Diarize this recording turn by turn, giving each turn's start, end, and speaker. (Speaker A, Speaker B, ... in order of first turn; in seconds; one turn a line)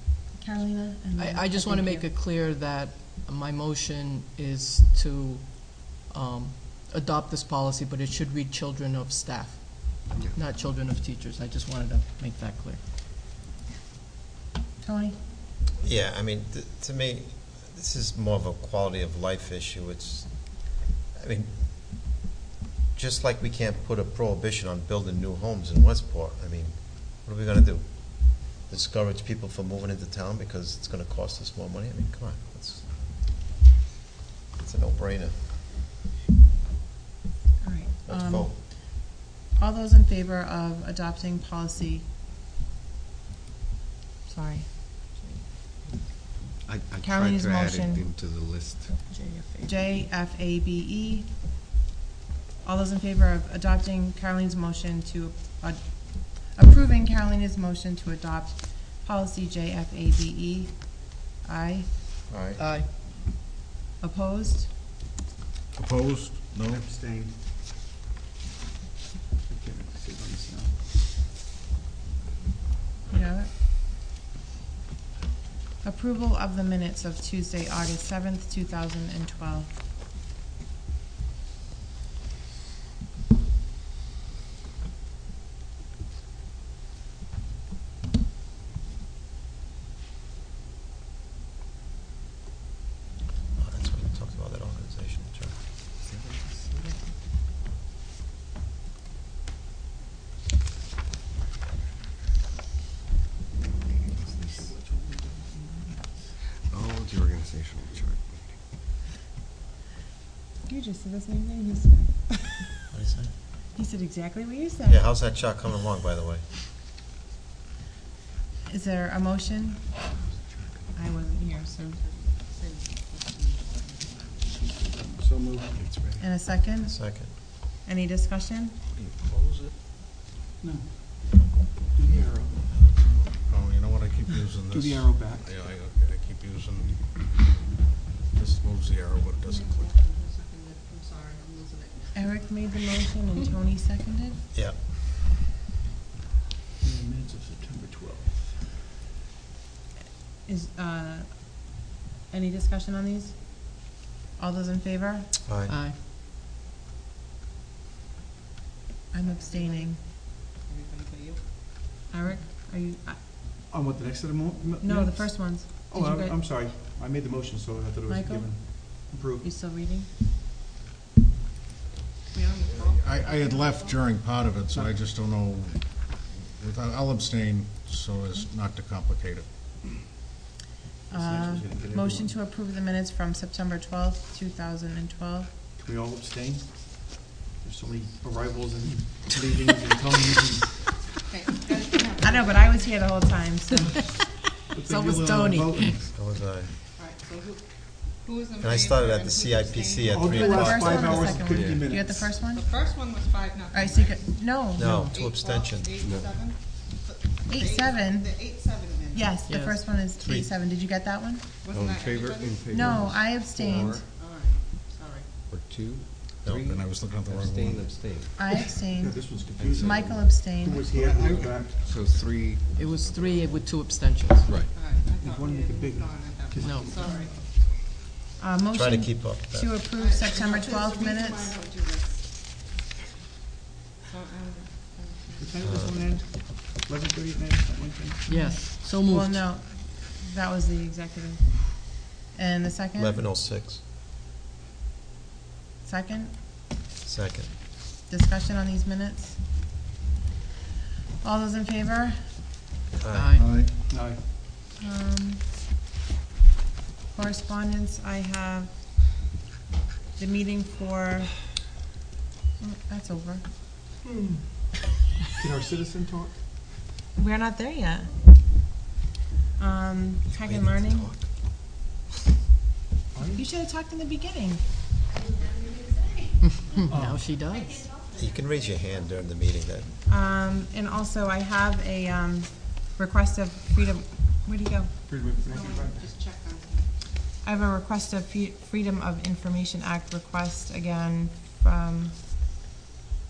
Speaker A: 0.4-2.1
Speaker B: 1.1-12.8
Speaker A: 14.8-15.2
Speaker C: 15.8-21.7
Speaker C: 22.9-33.0
Speaker C: 34.6-35.5
Speaker A: 37.6-42.1
Speaker C: 38.0-38.6
Speaker A: 44.2-45.2
Speaker D: 46.6-49.0
Speaker A: 47.0-48.0
Speaker B: 49.0-49.8
Speaker A: 49.6-51.3
Speaker A: 52.6-61.9
Speaker C: 62.3-62.6
Speaker B: 62.6-62.9
Speaker A: 64.0-64.7
Speaker E: 65.7-66.8
Speaker F: 66.6-67.3
Speaker F: 69.5-70.8
Speaker A: 73.1-73.5
Speaker A: 75.8-79.7
Speaker C: 93.6-95.5
Speaker D: 96.0-97.0
Speaker D: 104.3-104.7
Speaker F: 104.4-106.3
Speaker D: 106.6-108.5
Speaker A: 110.6-112.3
Speaker C: 112.9-113.3
Speaker A: 113.7-115.0
Speaker C: 114.8-116.4
Speaker A: 118.7-119.9
Speaker A: 120.9-122.0
Speaker G: 122.0-124.2
Speaker F: 124.6-125.8
Speaker D: 125.8-126.2
Speaker A: 126.2-128.8
Speaker C: 126.8-127.3
Speaker E: 128.9-129.7
Speaker F: 130.6-133.0
Speaker E: 132.7-137.4
Speaker F: 134.7-135.5
Speaker E: 138.3-139.9
Speaker G: 139.4-142.4
Speaker A: 142.1-144.4
Speaker C: 144.5-144.8
Speaker F: 146.8-148.8
Speaker A: 150.4-155.3
Speaker C: 155.4-155.7
Speaker B: 155.7-156.0
Speaker A: 159.1-160.0
Speaker G: 159.2-161.4
Speaker A: 162.1-163.2
Speaker F: 163.7-169.5
Speaker A: 164.8-166.4
Speaker A: 168.1-170.1
Speaker G: 172.3-174.0
Speaker E: 172.8-179.4
Speaker F: 174.7-174.9
Speaker A: 181.1-185.5
Speaker D: 181.1-182.3
Speaker F: 181.6-182.0
Speaker F: 185.8-190.8
Speaker G: 191.2-192.9
Speaker A: 192.2-193.9
Speaker B: 193.8-194.3
Speaker F: 194.7-196.1
Speaker B: 194.8-196.0
Speaker C: 196.1-196.7
Speaker G: 197.0-201.0
Speaker C: 198.6-201.4
Speaker F: 200.1-202.3
Speaker A: 200.3-202.7
Speaker D: 201.5-201.8
Speaker G: 202.5-204.4
Speaker A: 203.7-204.8
Speaker C: 204.8-206.0
Speaker B: 204.8-205.1
Speaker G: 205.0-209.4
Speaker D: 206.0-206.3
Speaker A: 207.5-208.5
Speaker A: 209.1-211.4
Speaker B: 209.5-209.9
Speaker C: 210.2-210.5
Speaker G: 211.6-213.0
Speaker D: 211.7-214.1
Speaker A: 212.7-214.0
Speaker G: 213.7-215.3
Speaker D: 215.5-218.3
Speaker E: 216.4-218.0
Speaker A: 218.3-220.8
Speaker F: 218.9-221.8
Speaker D: 219.5-220.4
Speaker D: 221.8-223.6
Speaker B: 222.7-224.5
Speaker D: 224.4-224.7
Speaker G: 224.6-227.4
Speaker F: 225.2-227.4
Speaker B: 226.6-227.0
Speaker A: 227.0-227.2
Speaker A: 228.4-231.6
Speaker C: 228.7-229.8
Speaker G: 229.9-232.5
Speaker G: 234.0-235.8
Speaker F: 235.4-238.2
Speaker C: 235.6-235.9
Speaker B: 238.3-239.5
Speaker A: 238.3-243.2
Speaker C: 242.9-243.8
Speaker A: 245.8-246.7
Speaker C: 247.0-247.6
Speaker A: 248.0-249.4
Speaker A: 251.2-252.2
Speaker C: 252.9-253.4
Speaker B: 253.1-253.4
Speaker E: 253.3-253.8
Speaker F: 253.9-254.2
Speaker A: 254.8-255.4
Speaker A: 257.1-258.7
Speaker A: 260.2-261.4
Speaker A: 262.6-263.4
Speaker F: 264.0-264.7
Speaker F: 265.4-266.4
Speaker A: 267.1-268.2
Speaker A: 269.6-271.1
Speaker C: 270.3-271.4
Speaker F: 273.1-273.4
Speaker A: 273.3-274.7
Speaker G: 275.4-276.0
Speaker B: 276.4-278.0
Speaker F: 276.9-277.3
Speaker C: 278.1-279.9
Speaker A: 280.1-284.9
Speaker F: 285.0-286.2
Speaker G: 285.4-286.9
Speaker A: 287.4-292.1